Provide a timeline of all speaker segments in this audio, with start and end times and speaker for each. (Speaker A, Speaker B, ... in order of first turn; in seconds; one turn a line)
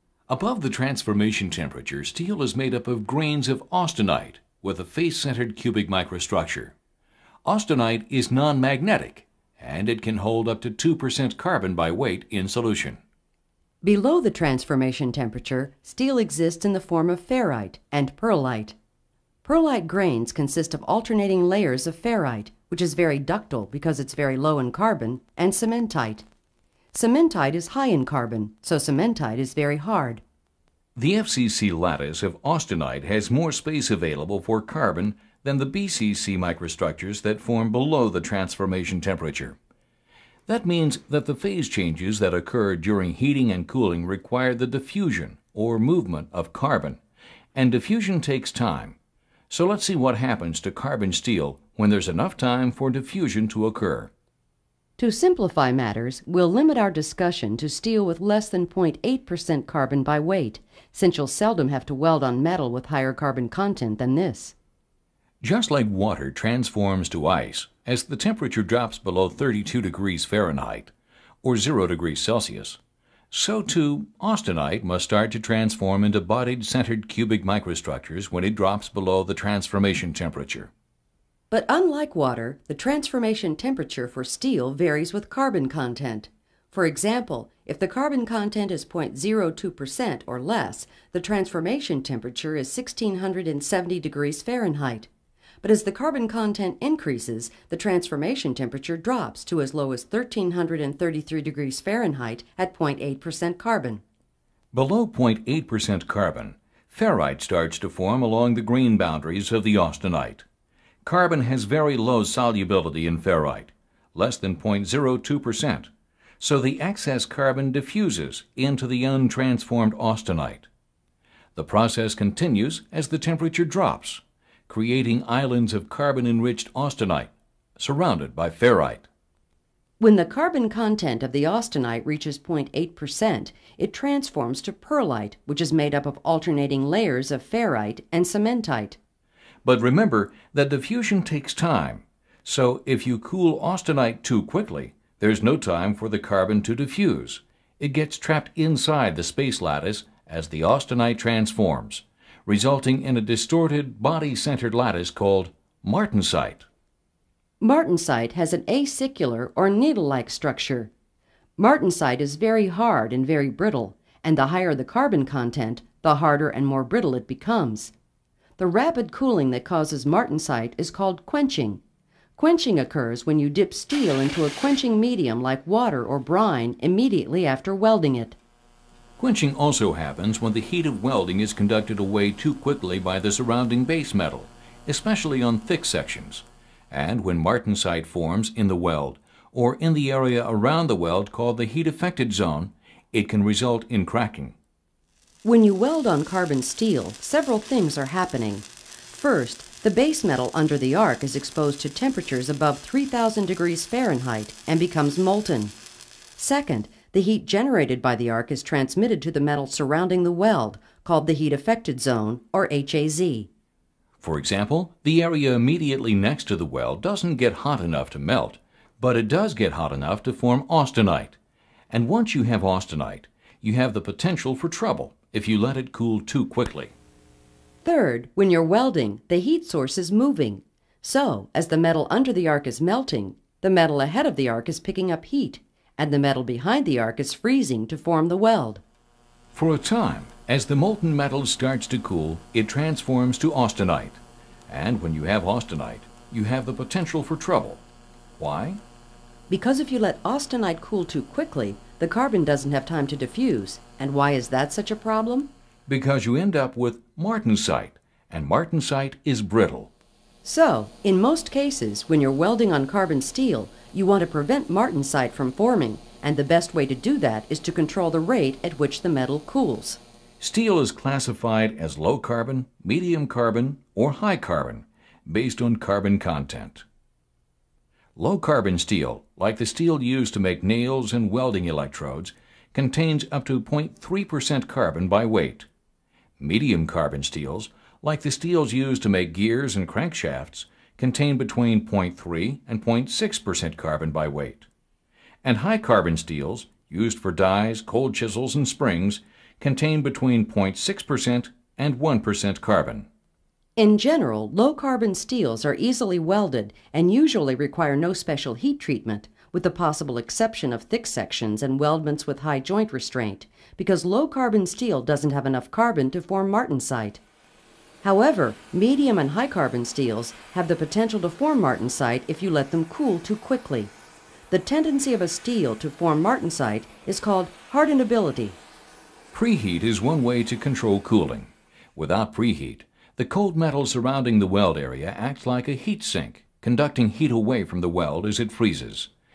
Speaker A: 0.3-6.8
Speaker A: 7.5-13.0
Speaker B: 13.8-18.8
Speaker B: 19.4-26.3
Speaker B: 26.9-30.2
Speaker A: 30.9-39.6
Speaker A: 40.5-47.0
Speaker A: 47.5-49.0
Speaker A: 49.5-54.1
Speaker B: 55.0-64.5
Speaker A: 65.4-70.9
Speaker A: 71.4-72.8
Speaker A: 73.3-80.7
Speaker B: 81.5-95.1
Speaker B: 95.6-104.0
Speaker A: 104.7-110.5
Speaker A: 111.0-120.7
Speaker A: 121.5-129.1
Speaker B: 130.0-139.0
Speaker A: 139.7-156.7
Speaker B: 157.6-160.9
Speaker B: 161.6-167.9
Speaker B: 168.6-171.8
Speaker B: 172.4-178.4
Speaker A: 179.2-194.6
Speaker B: 195.4-205.7
Speaker B: 206.4-213.5
Speaker A: 214.2-221.4
Speaker A: 221.9-226.9
Speaker B: 227.8-238.8
Speaker A: 239.5-247.8
Speaker A: 248.4-248.8
Speaker B: 249.5-255.5
Speaker A: 255.9-259.9
Speaker B: 260.4-270.0
Speaker A: 270.4-276.9
Speaker A: 278.2-285.7
Speaker A: 286.4-294.7
Speaker A: 295.4-303.1
Speaker B: 303.8-317.2
Speaker B: 318.0-323.9
Speaker B: 324.5-328.6
Speaker A: 329.3-339.1